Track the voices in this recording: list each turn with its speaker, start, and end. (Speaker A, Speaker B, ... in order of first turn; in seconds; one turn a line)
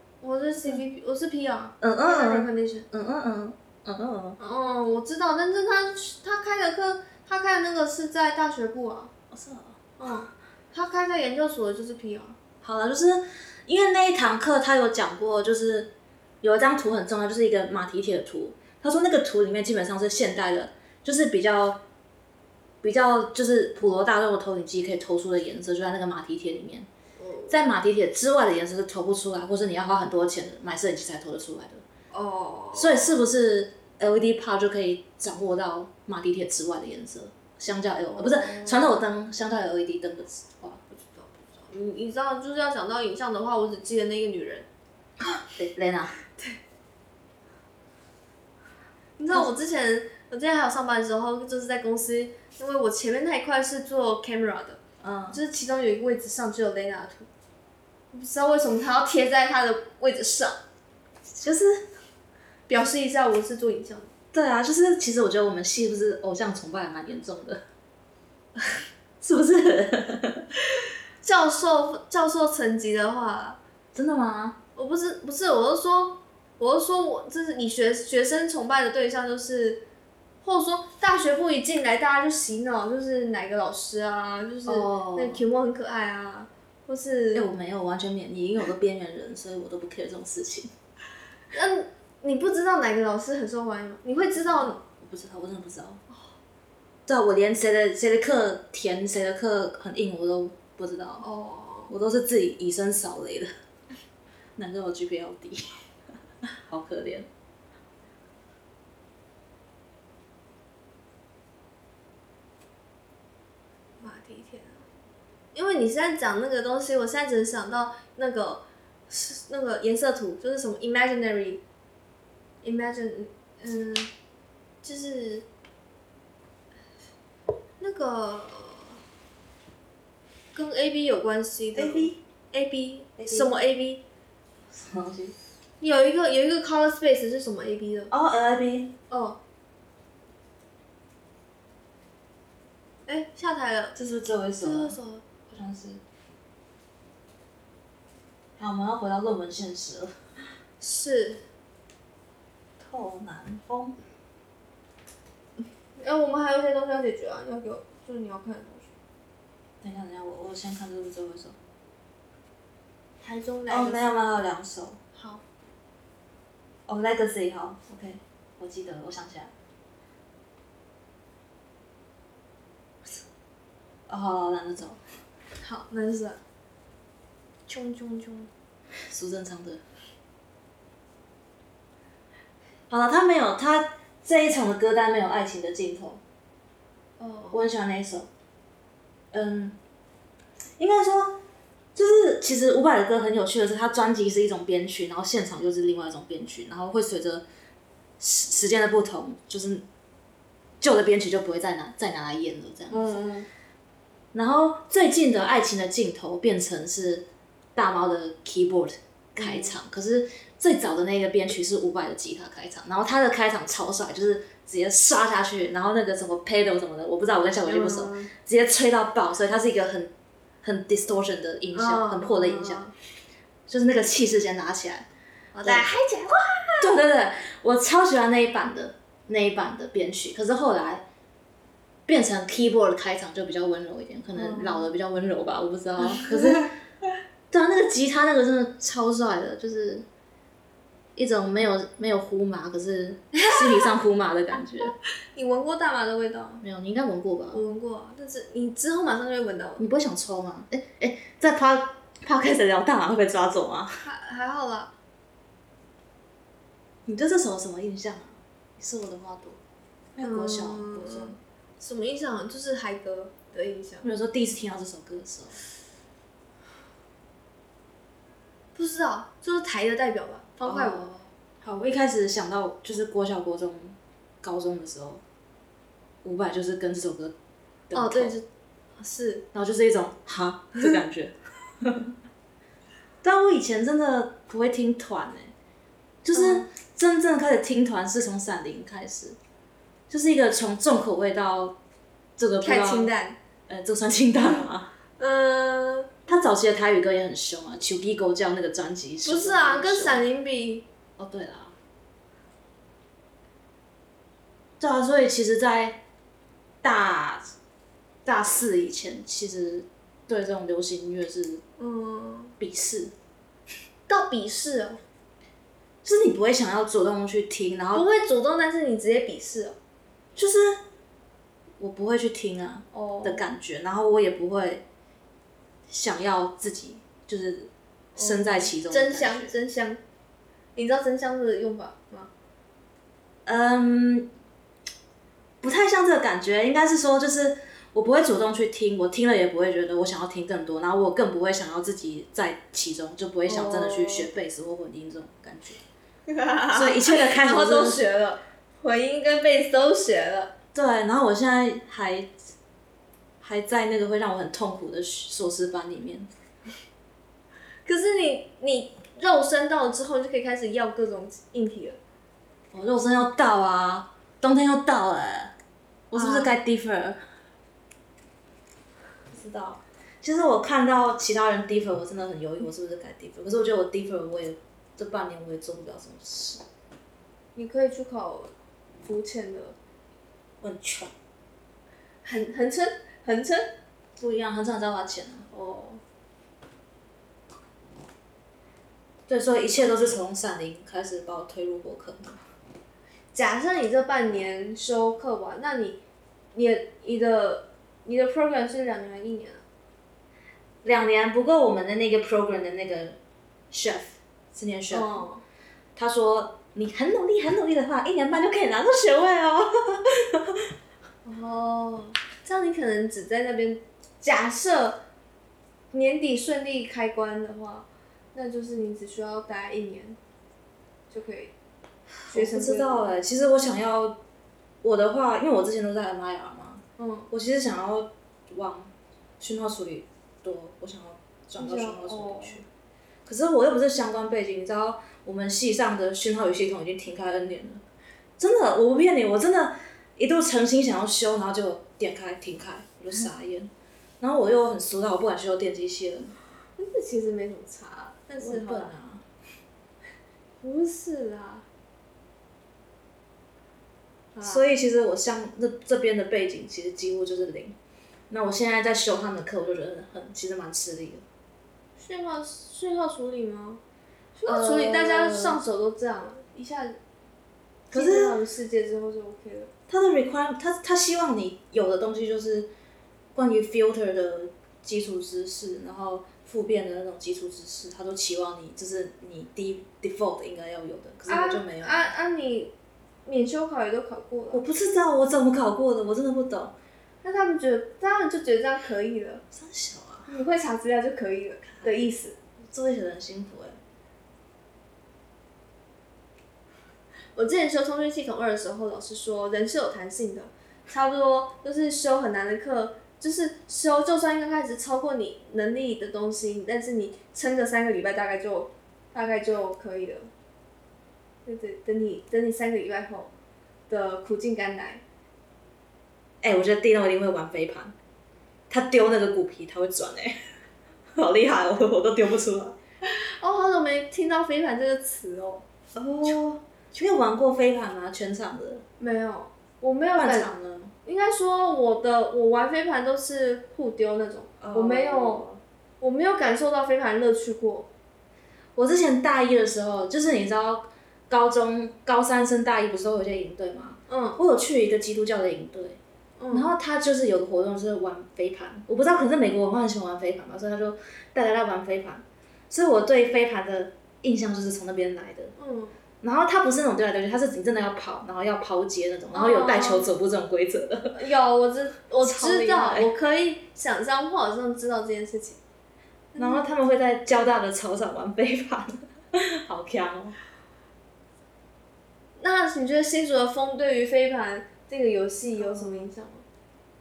Speaker A: 0.2-2.9
Speaker B: 1.8-4.4
Speaker A: 4.4-9.1
Speaker B: 9.3-9.8
Speaker A: 10.0-12.4
Speaker B: 12.6-15.9
Speaker B: 16.4-21.8
Speaker B: 22.8-26.9
Speaker A: 27.2-27.6
Speaker B: 27.5-31.8
Speaker A: 32.1-33.2
Speaker B: 32.8-41.0
Speaker A: 38.1-39.0
Speaker A: 41.1-44.7
Speaker B: 45.5-46.2
Speaker A: 49.2-54.8
Speaker B: 55.0-55.4
Speaker A: 55.3-57.3
Speaker A: 58.1-60.6
Speaker B: 61.4-61.9
Speaker A: 62.7-64.1
Speaker B: 64.3-67.6
Speaker B: 69.2-70.5
Speaker A: 71.2-73.6
Speaker B: 73.9-74.6
Speaker A: 74.8-79.9
Speaker A: 80.4-87.5
Speaker B: 84.7-85.4
Speaker B: 87.3-90.7
Speaker A: 91.5-94.8
Speaker B: 94.4-96.0
Speaker B: 97.1-101.2
Speaker A: 101.2-101.9
Speaker B: 101.9-103.5
Speaker B: 104.6-105.6
Speaker B: 106.4-107.3
Speaker A: 114.0-114.8
Speaker A: 115.5-121.6
Speaker A: 122.6-124.1
Speaker A: 124.8-125.5
Speaker A: 127.8-129.0
Speaker A: 130.6-134.0
Speaker B: 131.8-132.2
Speaker B: 133.2-133.5
Speaker B: 134.7-135.4
Speaker A: 135.8-138.1
Speaker B: 138.1-139.0
Speaker A: 139.1-139.4
Speaker A: 143.1-143.9
Speaker B: 143.9-145.0
Speaker A: 144.6-145.2
Speaker B: 145.5-146.0
Speaker B: 148.6-150.1
Speaker A: 150.8-151.4
Speaker B: 152.8-154.0
Speaker A: 156.0-158.9
Speaker B: 159.8-161.6
Speaker A: 163.2-164.2
Speaker B: 163.7-165.0
Speaker A: 165.2-165.4
Speaker B: 166.9-169.5
Speaker B: 174.1-175.0
Speaker A: 175.6-176.4
Speaker A: 177.7-178.5
Speaker B: 179.1-179.8
Speaker B: 182.9-186.2
Speaker A: 187.2-187.6
Speaker B: 187.5-188.3
Speaker B: 189.3-189.8
Speaker B: 190.8-191.4
Speaker B: 191.9-197.5
Speaker B: 198.2-199.9
Speaker B: 200.8-203.2
Speaker A: 202.9-203.5
Speaker B: 204.3-220.1
Speaker A: 209.4-209.8
Speaker A: 217.7-218.3
Speaker B: 220.6-222.8
Speaker A: 221.7-222.9
Speaker B: 223.7-225.1
Speaker A: 225.5-227.0
Speaker B: 226.8-231.1
Speaker B: 232.1-236.8
Speaker A: 234.3-234.9
Speaker A: 236.0-236.7
Speaker B: 237.5-240.1
Speaker B: 241.2-244.9
Speaker A: 243.3-243.9
Speaker A: 245.3-246.6
Speaker B: 246.6-247.6
Speaker A: 247.5-249.8
Speaker B: 249.8-254.1
Speaker A: 254.0-254.9
Speaker B: 257.1-259.6
Speaker B: 260.1-261.4
Speaker A: 260.2-264.1
Speaker B: 264.0-265.6
Speaker A: 268.8-271.1
Speaker B: 270.6-275.2
Speaker B: 276.2-277.4
Speaker B: 277.9-278.4
Speaker A: 277.9-279.5
Speaker B: 279.5-282.1
Speaker B: 283.2-285.5
Speaker B: 286.2-289.4
Speaker A: 286.3-286.7
Speaker B: 290.1-291.8
Speaker B: 292.4-293.1
Speaker A: 292.6-293.4
Speaker B: 293.7-294.9
Speaker A: 295.2-296.2
Speaker B: 296.3-300.2
Speaker A: 299.2-300.9
Speaker B: 301.2-301.8
Speaker B: 304.8-306.0
Speaker B: 306.8-307.4
Speaker B: 308.2-311.6
Speaker A: 311.8-312.6
Speaker B: 312.6-313.1
Speaker A: 314.1-315.0
Speaker B: 316.0-318.0
Speaker A: 317.9-319.8
Speaker B: 320.4-320.8
Speaker B: 321.8-324.9
Speaker A: 322.9-323.4
Speaker B: 325.9-329.5
Speaker A: 328.2-330.0
Speaker A: 330.8-332.3
Speaker B: 333.5-334.3
Speaker B: 335.6-345.8
Speaker A: 343.5-344.3
Speaker A: 346.3-350.5
Speaker B: 346.7-348.0
Speaker B: 350.7-352.3
Speaker B: 353.4-356.3
Speaker A: 357.9-362.0
Speaker B: 362.7-365.5
Speaker B: 366.1-367.2
Speaker A: 366.1-366.5
Speaker B: 369.3-376.6
Speaker A: 377.6-378.5
Speaker A: 379.0-379.8
Speaker B: 380.6-381.1
Speaker A: 382.2-383.7
Speaker B: 384.2-385.5
Speaker A: 385.5-386.0
Speaker B: 389.3-392.4
Speaker A: 393.3-396.0
Speaker A: 396.5-399.6
Speaker B: 400.8-403.2
Speaker B: 403.7-405.2
Speaker A: 404.9-405.4
Speaker B: 406.0-410.7
Speaker A: 411.2-415.0
Speaker A: 415.9-420.2
Speaker A: 421.1-421.5
Speaker B: 422.2-424.2
Speaker A: 422.3-423.1
Speaker B: 424.8-432.7
Speaker A: 427.0-427.3
Speaker A: 431.6-432.6
Speaker B: 433.3-437.8
Speaker B: 438.4-446.4
Speaker A: 446.8-448.9
Speaker B: 448.4-449.2
Speaker A: 450.6-451.7
Speaker A: 454.4-454.6
Speaker B: 454.4-457.8
Speaker B: 458.3-461.2
Speaker A: 462.0-463.8
Speaker A: 464.4-467.0
Speaker B: 464.4-465.6
Speaker A: 467.9-469.7
Speaker B: 467.9-468.4
Speaker B: 469.9-472.7
Speaker B: 473.4-482.1
Speaker A: 481.3-482.7
Speaker A: 483.3-484.6
Speaker B: 484.5-486.8
Speaker A: 487.2-489.4
Speaker B: 489.5-490.3
Speaker A: 490.3-492.4
Speaker B: 491.8-492.1
Speaker B: 492.6-493.8
Speaker A: 497.4-510.3
Speaker A: 511.4-513.3
Speaker A: 513.9-515.0
Speaker B: 516.4-517.9
Speaker B: 518.7-520.4
Speaker B: 521.1-522.8
Speaker A: 523.0-525.7
Speaker B: 526.0-528.9
Speaker A: 529.0-530.5
Speaker B: 530.2-530.9
Speaker A: 531.0-535.5
Speaker B: 534.6-535.6
Speaker A: 536.0-537.9
Speaker B: 538.8-546.0
Speaker A: 544.1-544.4
Speaker A: 546.4-546.7
Speaker B: 546.5-555.5
Speaker A: 555.6-556.0
Speaker B: 556.2-561.2
Speaker A: 559.3-560.2
Speaker A: 561.1-565.6
Speaker B: 562.2-563.1
Speaker A: 566.3-566.6
Speaker B: 566.4-570.4
Speaker A: 572.4-576.5
Speaker B: 575.7-576.0